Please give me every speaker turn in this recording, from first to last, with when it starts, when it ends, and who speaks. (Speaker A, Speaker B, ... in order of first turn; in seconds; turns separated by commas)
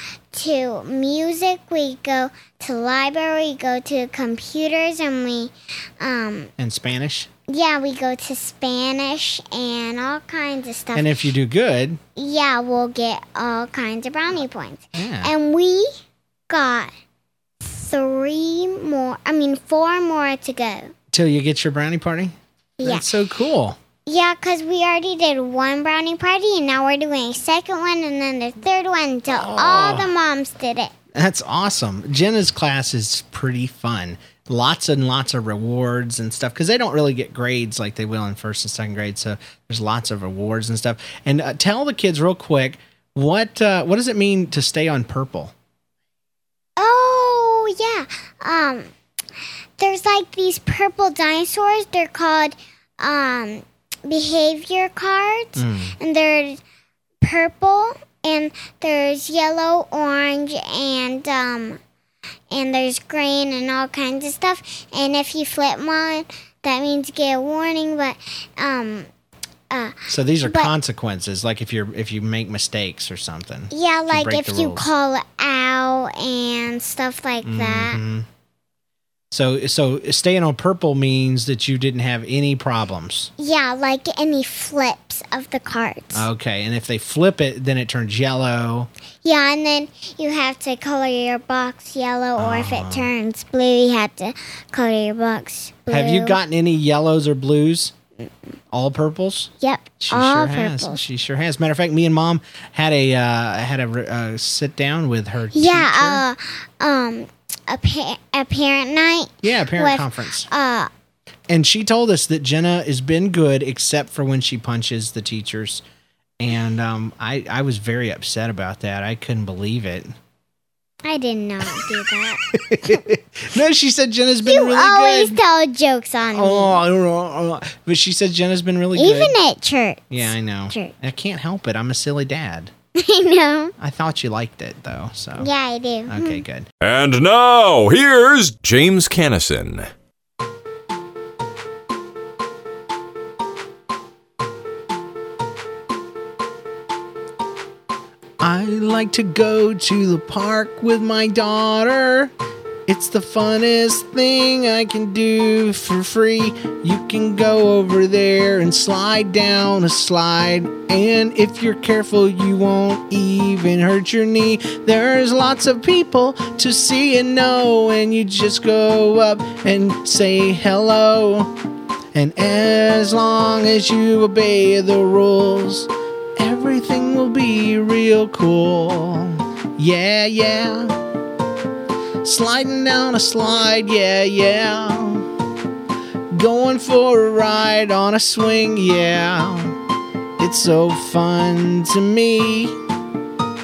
Speaker A: 0.3-6.5, Speaker B: 6.6-7.3, Speaker A: 7.5-11.2, Speaker B: 10.9-12.0, Speaker A: 12.2-15.9, Speaker B: 14.9-15.3, Speaker A: 16.5-16.9, Speaker A: 17.6-20.9, Speaker B: 21.1-23.8, Speaker A: 22.8-23.1, Speaker A: 24.1-30.9, Speaker B: 29.3-30.1, Speaker B: 31.1-45.5, Speaker A: 46.8-48.9, Speaker A: 49.8-56.6, Speaker B: 55.5-56.0, Speaker A: 57.2-61.8, Speaker A: 62.5-69.1, Speaker A: 69.7-70.7, Speaker B: 70.1-74.8, Speaker A: 73.7-78.0, Speaker B: 77.4-78.3, Speaker B: 79.3-83.3, Speaker A: 83.4-86.3, Speaker B: 86.1-88.9, Speaker A: 89.2-96.4, Speaker B: 92.4-93.1, Speaker B: 95.9-97.9, Speaker B: 98.7-99.5, Speaker A: 99.6-101.0, Speaker B: 100.0-106.2, Speaker A: 105.5-110.9, Speaker B: 109.4-110.5, Speaker B: 111.5-115.8, Speaker B: 116.4-120.1, Speaker A: 121.0-123.0, Speaker B: 122.5-125.4, Speaker A: 124.4-126.8, Speaker B: 126.3-129.3, Speaker A: 128.9-130.9, Speaker B: 130.1-132.7, Speaker A: 132.9-133.7, Speaker B: 133.8-135.5, Speaker A: 135.4-136.4, Speaker B: 136.1-136.7, Speaker C: 136.8-139.9, Speaker B: 148.4-152.3, Speaker B: 152.9-171.5, Speaker B: 172.1-181.0, Speaker B: 182.2-185.3, Speaker B: 186.3-189.8, Speaker B: 190.4-192.8